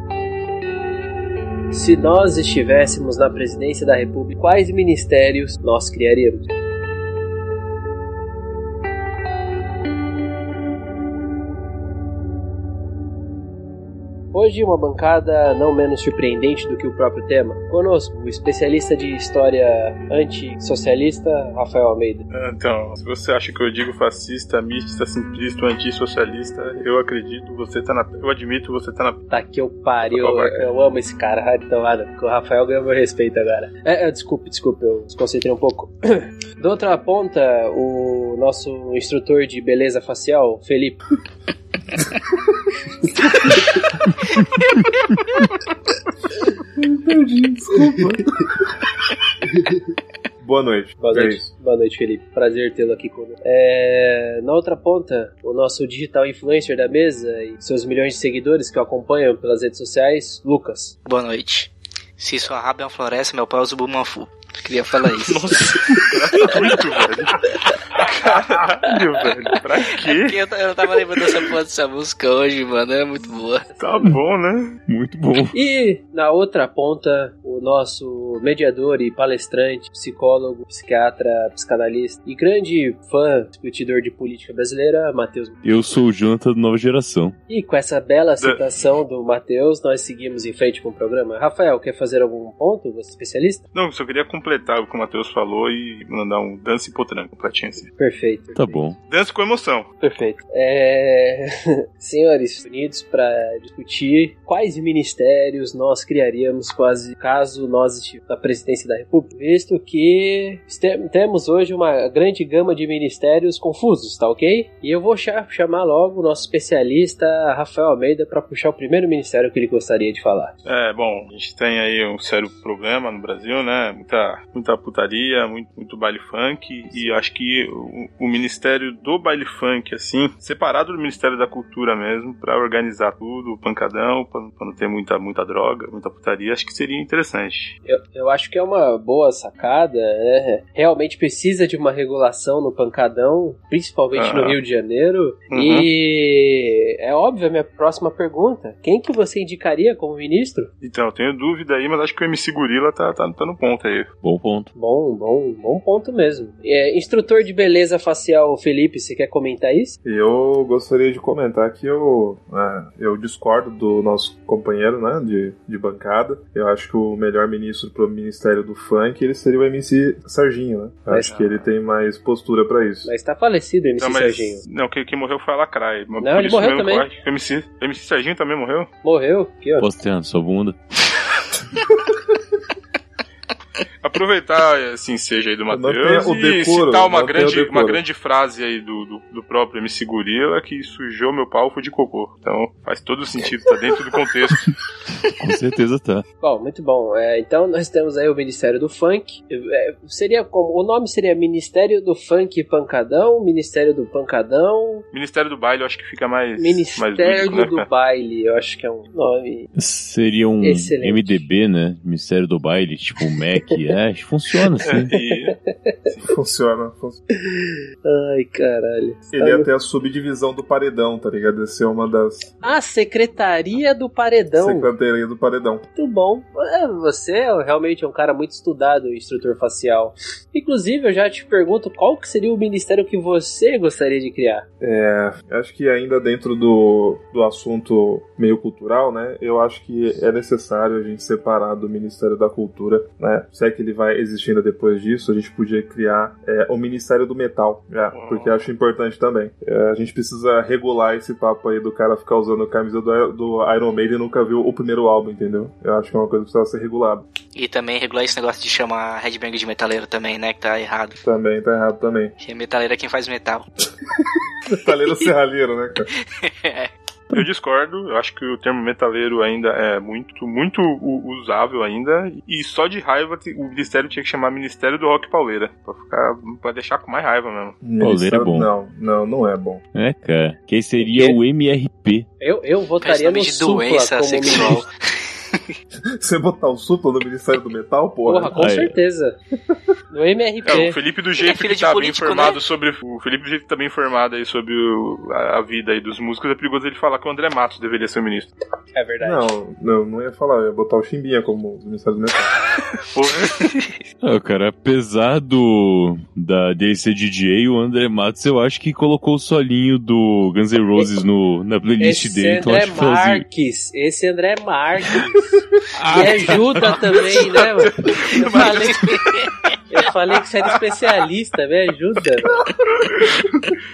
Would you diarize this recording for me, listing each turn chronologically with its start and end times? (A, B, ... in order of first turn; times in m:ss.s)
0:01.7-0:06.5 A
0:14.3-0:22.2 A
0:22.3-0:29.2 B
0:29.3-0:41.0 A
0:30.1-0:30.7 B
0:43.3-0:43.8 A
0:46.7-0:48.8 C
0:50.4-0:51.4 C
0:51.0-1:00.9 A
1:01.0-1:05.9 D
1:05.2-1:10.3 B
1:06.4-1:06.7 D
1:10.0-1:13.7 D
1:13.7-1:14.2 A
1:13.8-1:14.8 B
1:14.9-1:15.6 E
1:15.5-1:25.6 A
1:25.6-1:27.4 E
1:27.5-1:33.6 A
1:33.7-1:37.9 B
1:38.0-1:38.9 A
1:38.5-1:39.0 E
1:39.1-1:39.9 B
1:40.0-2:00.5 A
2:00.6-2:17.7 B
2:17.8-2:30.7 A
2:24.1-2:24.6 B
2:25.5-2:25.9 B
2:30.8-2:34.1 B
2:34.2-2:34.7 E
2:34.7-2:40.0 A
2:40.0-2:53.1 C
2:51.1-2:51.6 A
2:53.0-2:54.6 A
2:54.0-2:58.9 B
2:56.2-2:57.1 A
2:59.0-2:59.9 A
2:59.8-3:00.8 E
3:04.0-3:14.7 B
3:05.7-3:08.0 C
3:15.3-3:16.2 E
3:16.4-3:25.0 A
3:25.1-3:27.9 B
3:26.6-3:29.7 A
3:29.7-3:35.1 E
3:30.6-3:31.4 A
3:33.4-3:33.9 A
3:34.8-3:35.6 B
3:35.2-3:36.1 A
3:36.2-3:37.2 C
3:37.5-3:39.7 A
3:39.3-3:42.5 C
3:42.6-3:44.9 A
3:44.6-3:45.8 C
3:46.0-3:54.6 A
3:54.8-4:17.2 C
4:08.1-4:08.6 B
4:17.6-4:21.2 D
4:21.2-4:22.3 C
4:22.4-4:23.7 D
4:24.2-4:26.1 C
4:26.4-4:26.9 D
4:27.3-4:37.8 B
4:37.8-4:39.8 C
4:38.0-4:38.7 E
4:39.9-4:42.3 E
4:41.0-4:41.4 A
4:42.4-4:44.8 A
4:43.0-4:44.9 D
4:46.2-4:48.6 C
4:48.2-4:49.4 A
4:48.5-4:48.9 E
4:50.1-4:51.0 A
4:50.6-4:58.5 B
4:51.4-4:52.6 D
4:58.9-4:59.6 A
4:59.2-5:02.5 C
5:03.1-5:04.0 B
5:04.2-5:13.4 E
5:12.0-5:15.5 A
5:15.9-5:17.1 E
5:16.1-5:19.0 A
5:18.0-5:19.3 B
5:18.1-5:19.7 D
5:19.9-5:22.6 A
5:22.7-5:23.2 C
5:23.0-5:23.5 B